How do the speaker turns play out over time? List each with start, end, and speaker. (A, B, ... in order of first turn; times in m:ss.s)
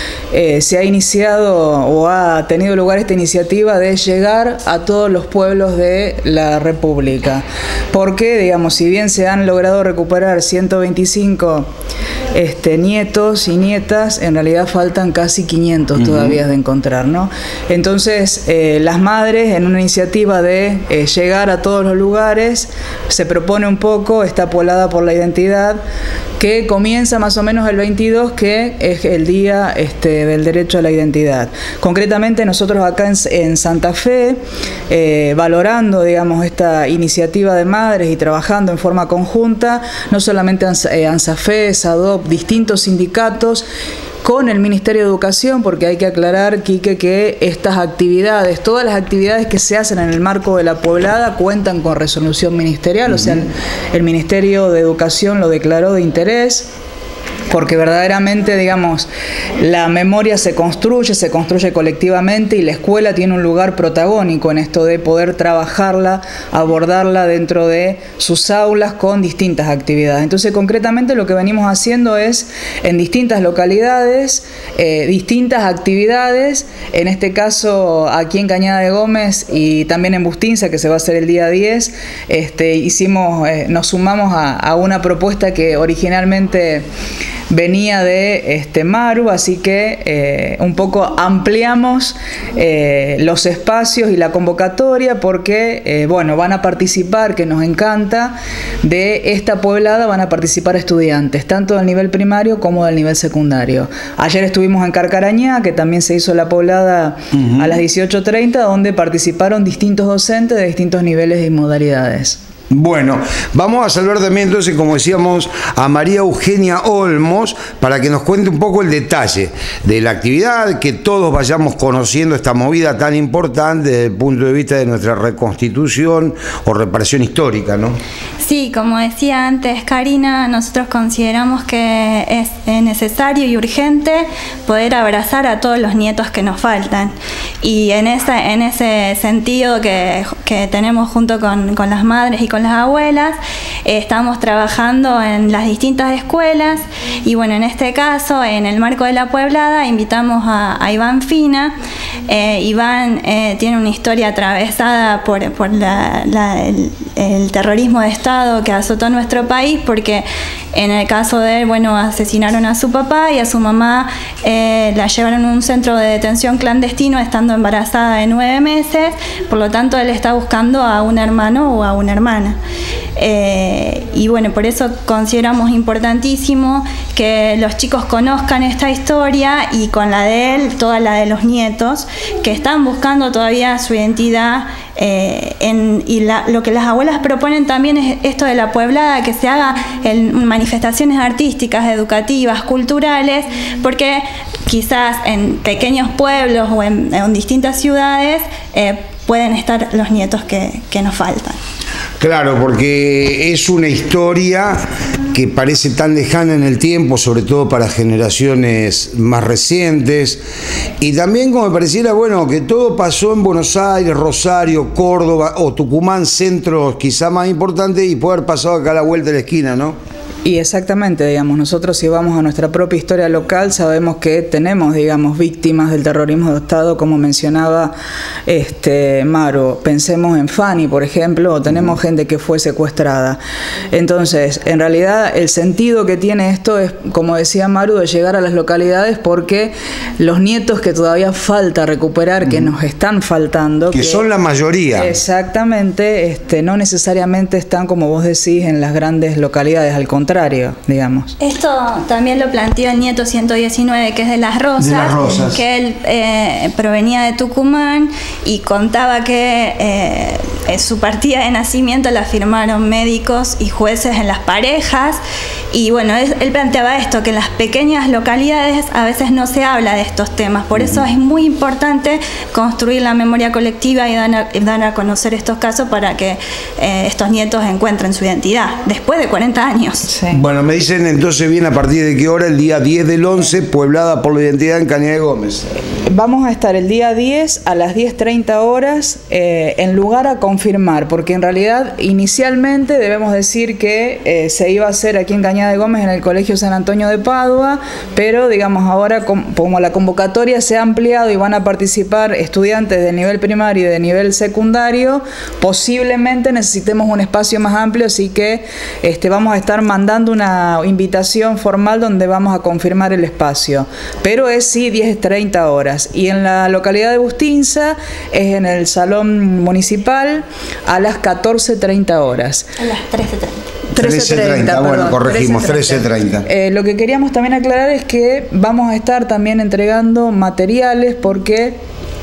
0:00.3-0:11.7 A
0:12.3-0:25.8 A
0:26.4-0:43.6 A
0:44.2-0:56.7 A
0:57.5-0:59.1 A
0:59.6-1:26.8 A
1:27.5-1:52.4 A
1:52.7-2:08.0 B
2:08.4-2:31.7 C
2:32.3-2:52.6 C
2:53.2-3:21.6 C
3:22.2-3:30.4 B
3:31.0-3:40.0 B
3:40.4-3:47.9 A
3:48.5-3:53.4 A
3:53.9-4:04.2 A
4:03.9-4:05.1 B
4:04.9-4:11.3 A
4:11.4-4:25.2 C
4:14.8-4:15.6 B
4:25.7-4:40.1 C
4:40.1-4:40.4 A
4:40.3-4:45.7 B
4:46.0-5:22.7 A
5:22.8-5:23.6 C
5:23.9-5:31.8 A
5:23.9-5:26.4 B